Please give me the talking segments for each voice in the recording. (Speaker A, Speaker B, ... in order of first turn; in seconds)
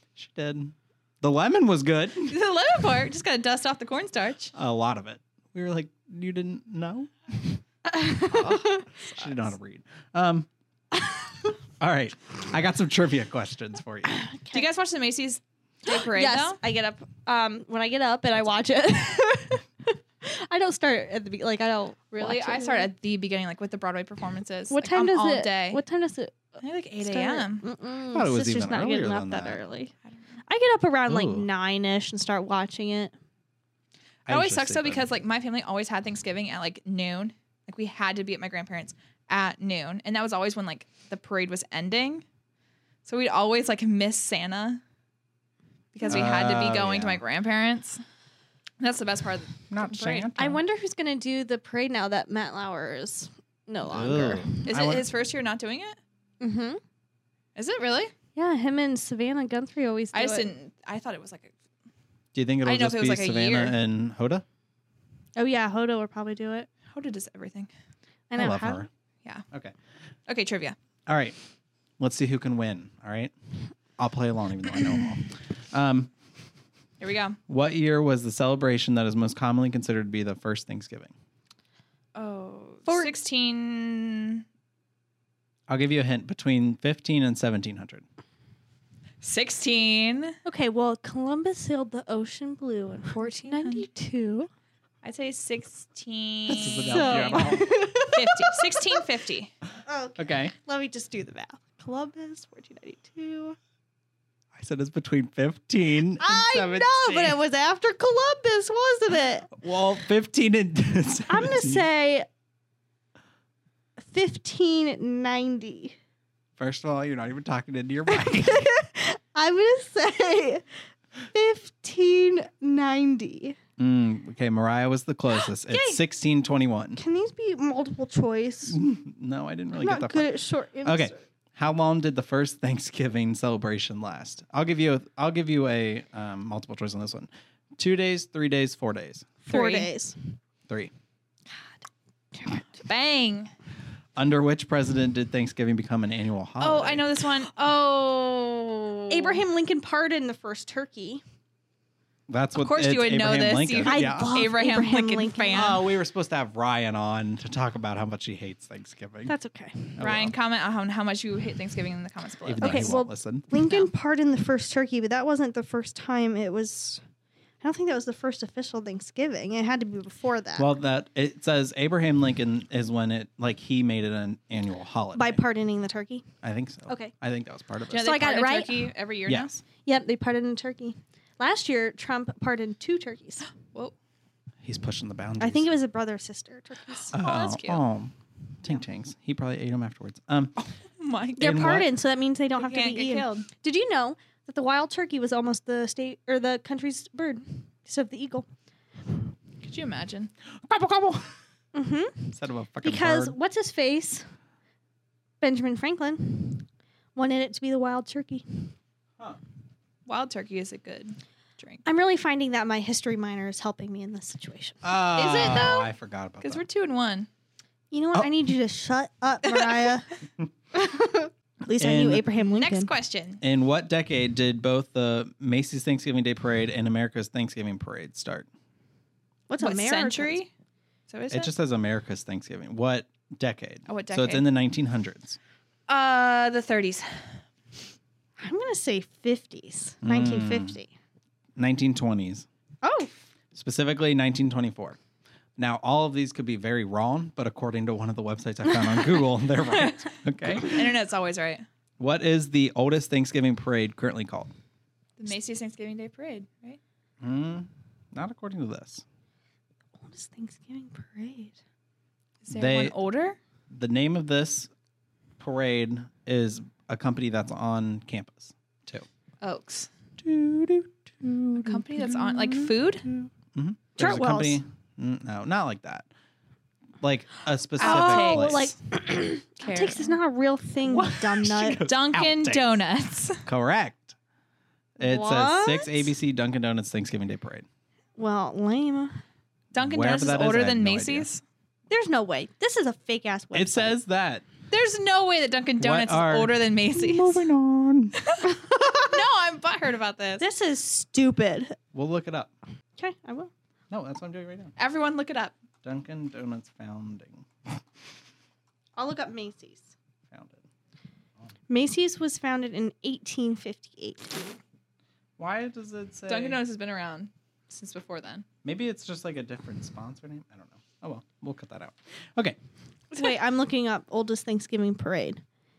Speaker A: 0.1-2.3, 4.5-7.6, 8.3-10.5, 11.8-14.2, 28.1-29.6, 31.1-31.4, 34.3-35.1, 46.0-47.2, 49.7-50.6, 53.9-55.1, 62.3-64.4, 68.3-68.9, 71.1-71.3, 72.0-73.3, 74.0-76.1, 77.5-81.1, 85.7-88.0, 96.5-97.7, 100.2-100.5, 104.5-107.4, 109.5-111.8, 116.6-118.6, 123.8-127.0, 128.7-130.3, 130.8-139.3, 144.2-147.1, 152.3-154.5, 155.5-159.3, 160.0-160.3, 162.4-163.4, 170.6-175.4, 176.4-178.1, 179.2-179.5, 184.6-185.7, 187.1-190.6, 191.4-191.9, 200.6-201.3, 202.3-203.3, 214.8-216.6, 221.8-222.2, 223.4-228.5, 231.3-235.4, 240.0-240.8, 241.6-242.4, 243.5-245.0, 245.6-250.9, 252.0-254.5, 257.2-259.0, 262.5-262.9, 263.7-264.7, 265.4-269.1, 270.2-276.1, 277.0-278.7, 280.8-282.8, 283.4-284.1, 285.0-287.6, 289.8-291.3, 293.5-294.4, 295.8-298.2, 301.9-302.5, 303.9-304.7, 305.8-307.4, 310.3-310.6, 315.4-316.6, 318.6-322.6
Speaker B: 2.2-4.5, 14.5-16.6, 22.1-25.8, 26.6-27.6, 30.0-30.4, 34.3-42.2, 43.0-44.8, 45.9-48.0, 48.8-50.3, 54.6-56.0, 57.5-58.1, 60.1-61.5, 62.6-63.8, 66.9-67.7, 70.3-70.8, 77.0-77.4, 82.1-84.4, 89.2-90.3, 93.4-93.9, 95.0-99.5, 139.5-139.9, 142.8-143.5, 146.6-149.4, 152.6-155.8, 160.0-163.0, 163.5-163.9, 177.9-179.6, 183.6-183.9, 187.1-187.8, 191.0-191.8, 192.6-193.4, 199.6-200.3, 210.1-211.8, 215.2-215.9, 216.4-217.3, 222.6-223.4, 229.6-230.5, 231.1-231.5, 233.9-234.4, 235.9-237.3, 249.8-251.6, 255.2-256.8, 262.4-263.4, 269.4-269.9, 271.6-273.1, 277.8-278.7, 279.6-280.2, 281.9-283.4, 289.7-291.4, 294.7-297.4, 298.2-300.4, 304.8-305.5, 316.3-318.4
Speaker C: 7.9-9.3, 14.0-14.6, 15.8-22.9, 24.7-29.9, 30.5-33.1, 50.4-54.6, 56.4-56.8, 58.4-60.5, 65.3-66.7, 68.3-68.8, 82.9-83.2, 90.4-94.5, 96.8-99.0, 99.8-103.6, 106.2-109.5, 111.3-112.3, 114.0-115.9, 118.1-120.6, 121.3-123.6, 125.5-126.0, 127.0-128.8, 129.8-131.2, 139.4-140.2, 142.3-142.6, 149.1-151.2, 153.8-155.8, 159.2-160.0, 162.6-167.0, 167.6-170.7, 175.1-176.2, 178.0-178.9, 179.8-183.5, 185.4-187.1, 191.4-198.5, 201.7-204.2, 205.4-208.7, 211.8-215.5, 217.9-220.1, 220.7-222.9, 229.5-230.4, 238.4-240.9, 242.8-243.1, 260.0-261.6, 274.0-274.6, 277.8-281.8, 285.0-286.1, 288.2-289.2, 291.9-294.0, 298.4-299.1, 300.4-301.8, 303.0-303.5, 308.9-309.9, 311.7-314.4, 323.1-325.4